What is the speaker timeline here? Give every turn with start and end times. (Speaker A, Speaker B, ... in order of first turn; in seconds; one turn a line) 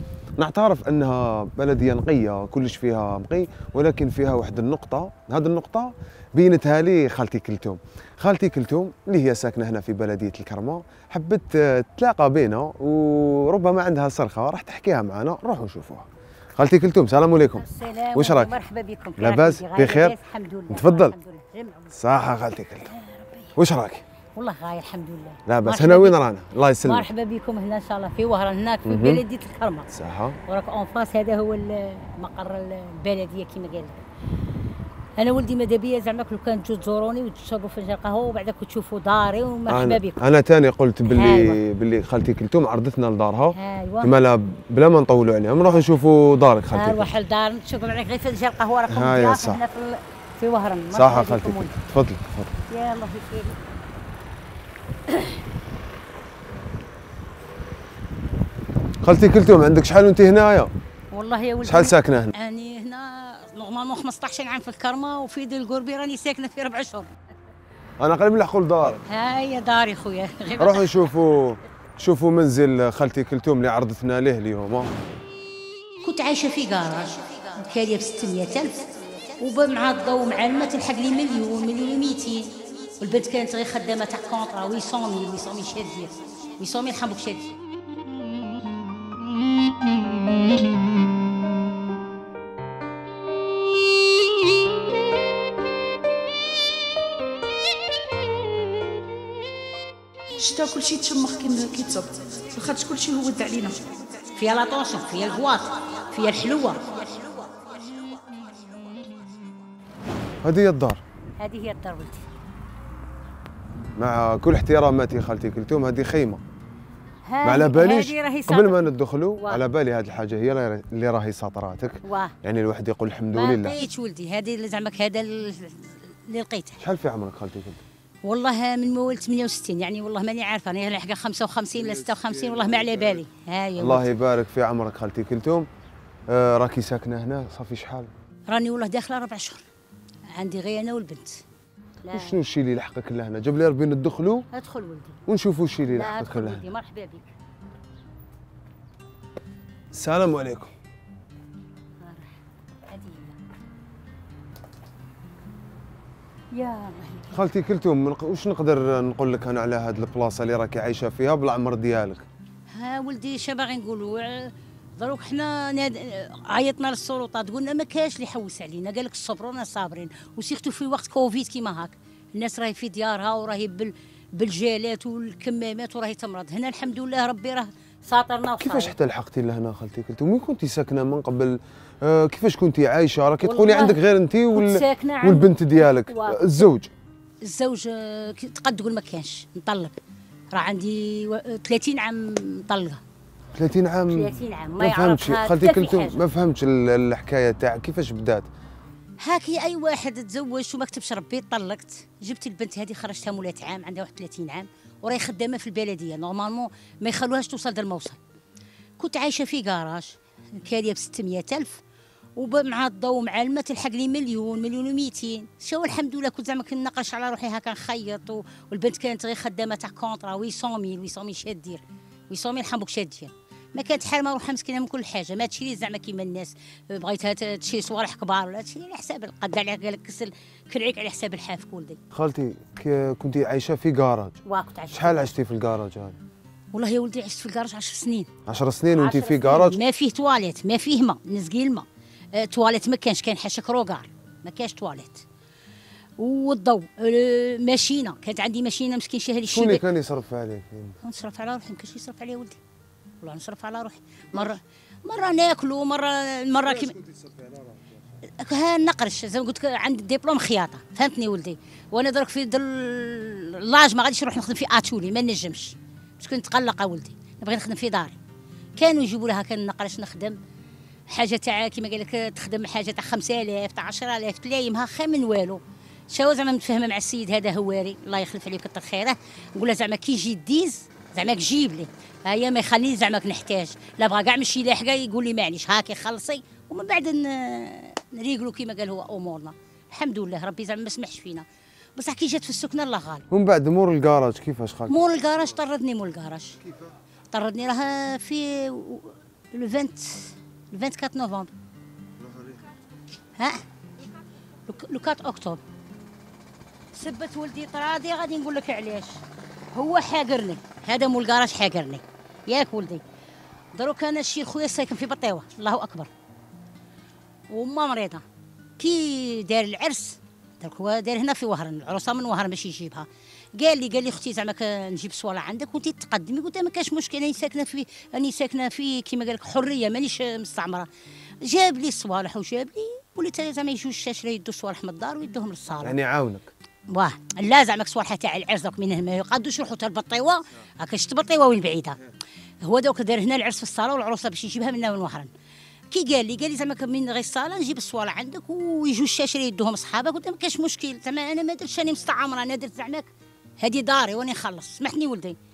Speaker A: 0.4-18.5
Speaker B: 17.6-22.0
Speaker A: 19.2-20.1
Speaker A: 20.7-21.1
Speaker A: 22.0-22.9
Speaker B: 22.9-23.5
Speaker A: 23.6-24.0
Speaker B: 24.4-26.2
Speaker A: 25.5-27.1
Speaker B: 26.8-29.9
Speaker A: 28.9-29.2
Speaker A: 29.9-30.4
Speaker B: 30.5-34.0
Speaker B: 35.2-40.2
Speaker A: 39.7-47.1
Speaker B: 41.1-41.6
Speaker B: 43.5-44.1
Speaker B: 46.7-51.8
Speaker A: 48.9-49.6
Speaker A: 50.9-52.5
Speaker B: 52.7-53.6
Speaker A: 59.0-60.7
Speaker B: 61.1-67.1
Speaker A: 61.6-62.3
Speaker A: 68.0-69.0
Speaker B: 69.0-71.1
Speaker A: 70.6-74.9
Speaker B: 76.0-87.6
Speaker C: 100.4-103.8
Speaker B: 104.3-106.8
Speaker A: 110.4-111.0
Speaker B: 111.4-112.3
Speaker A: 114.0-116.4
Speaker B: 117.2-119.6
Speaker A: 117.4-123.8
Speaker B: 122.0-122.3
Speaker B: 123.3-126.8
Speaker A: 126.8-127.8
Speaker B: 128.2-134.1
Speaker A: 131.7-133.2
Speaker A: 133.8-135.7
Speaker A: 136.3-138.1
Speaker B: 138.5-139.6
Speaker B: 140.3-141.4
Speaker B: 142.0-142.4
Speaker A: 142.1-144.4
Speaker B: 144.5-145.2
Speaker A: 145.3-146.6
Speaker B: 145.9-147.3
Speaker A: 149.9-150.7
Speaker B: 152.0-152.3
Speaker B: 152.9-153.4
Speaker B: 156.5-157.4
Speaker A: 157.3-162.2
Speaker B: 162.7-178.9
Speaker A: 178.6-186.9
Speaker B: 183.4-184.0
Speaker B: 184.5-186.7
Speaker B: 187.4-190.0
Speaker B: 190.5-193.0
Speaker A: 193.6-198.4
Speaker B: 194.1-196.2
Speaker B: 199.2-208.2
Speaker B: 209.0-211.8
Speaker B: 212.4-232.0
Speaker A: 232.1-234.4
Speaker B: 234.4-235.3
Speaker A: 234.9-236.2
Speaker B: 236.7-238.3
Speaker A: 238.5-239.8
Speaker B: 238.9-245.2
Speaker B: 246.2-249.8
Speaker A: 249.5-251.0
Speaker B: 251.0-252.6
Speaker B: 253.2-256.9
Speaker A: 256.6-257.8
Speaker B: 258.4-268.2
Speaker B: 268.8-270.4
Speaker B: 271.1-293.2
Speaker A: 293.3-295.0
Speaker B: 294.9-296.6
Speaker B: 297.3-301.5
Speaker A: 302.2-302.6
Speaker B: 303.4-303.6
Speaker B: 304.7-305.6
Speaker B: 306.9-309.2
Speaker B: 309.7-313.0
Speaker B: 313.7-316.1
Speaker B: 317.5-318.2
Speaker B: 318.8-330.9
Speaker B: 331.4-336.0
Speaker A: 335.8-336.5
Speaker B: 336.9-342.0
Speaker B: 342.6-345.3
Speaker B: 345.9-355.4